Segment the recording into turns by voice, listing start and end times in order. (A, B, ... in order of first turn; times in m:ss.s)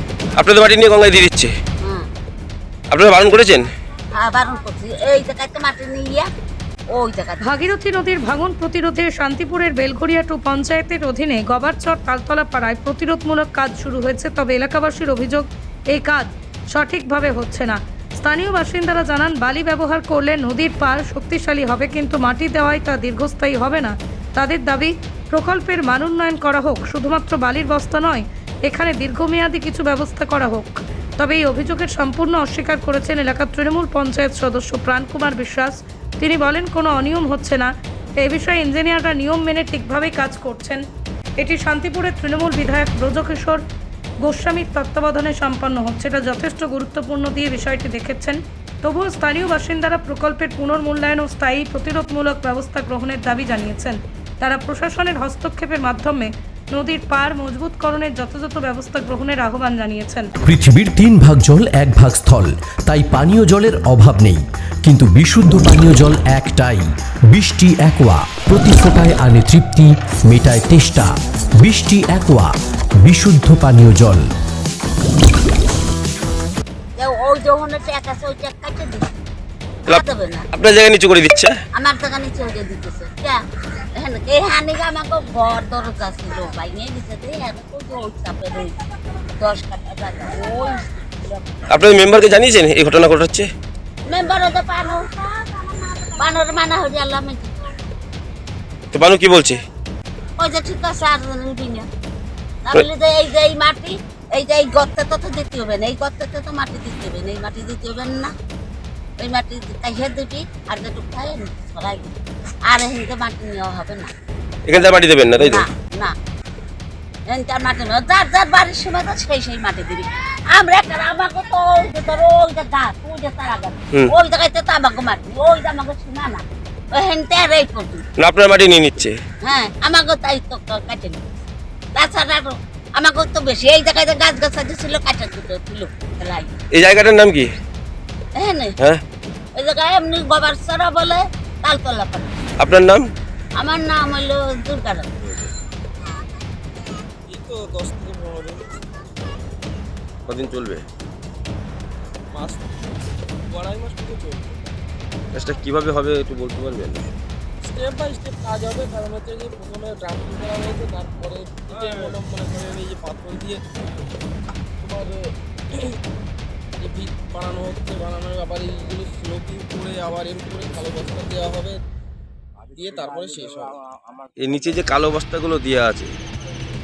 0:00.4-0:01.5 A
0:01.8-0:02.1 B
0:02.9-0:03.7 A
0:04.2-0:06.3 B
0:06.9-0:07.6 B
0:07.4-0:37.7 C
0:38.2-0:40.8 C
0:41.4-0:43.6 C
0:44.2-1:00.3 C
1:00.4-1:12.5 D
1:13.0-1:14.2 D
1:17.0-1:19.1 B
1:19.9-1:20.5 B
1:20.5-1:21.6 A
1:21.8-1:23.4 B
1:24.0-1:28.8 B
1:29.4-1:31.8 B
1:31.7-1:33.5 A
1:34.1-1:37.6 B
1:38.9-1:39.6 A
1:40.4-1:41.9 B
1:42.7-1:48.3 B
1:49.2-1:52.1 B
1:52.7-1:54.1 B
1:54.7-1:55.6 A
1:54.8-1:56.2 B
1:57.3-2:08.0 B
2:08.2-2:09.2 A
2:09.4-2:11.2 B
2:12.0-2:16.6 B
2:16.8-2:17.5 A
2:18.4-2:18.7 B
2:19.6-2:22.3 B
2:22.6-2:23.0 A
2:23.6-2:25.1 B
2:25.2-2:25.5 A
2:27.3-2:28.6 E
2:30.3-2:30.8 A
2:32.3-2:32.7 E
2:33.5-2:34.5 E
2:35.4-2:37.1 A
2:37.6-2:43.6 E
2:44.8-2:45.3 E
2:46.8-2:51.8 E
2:52.8-2:53.7 E
2:54.4-2:56.1 A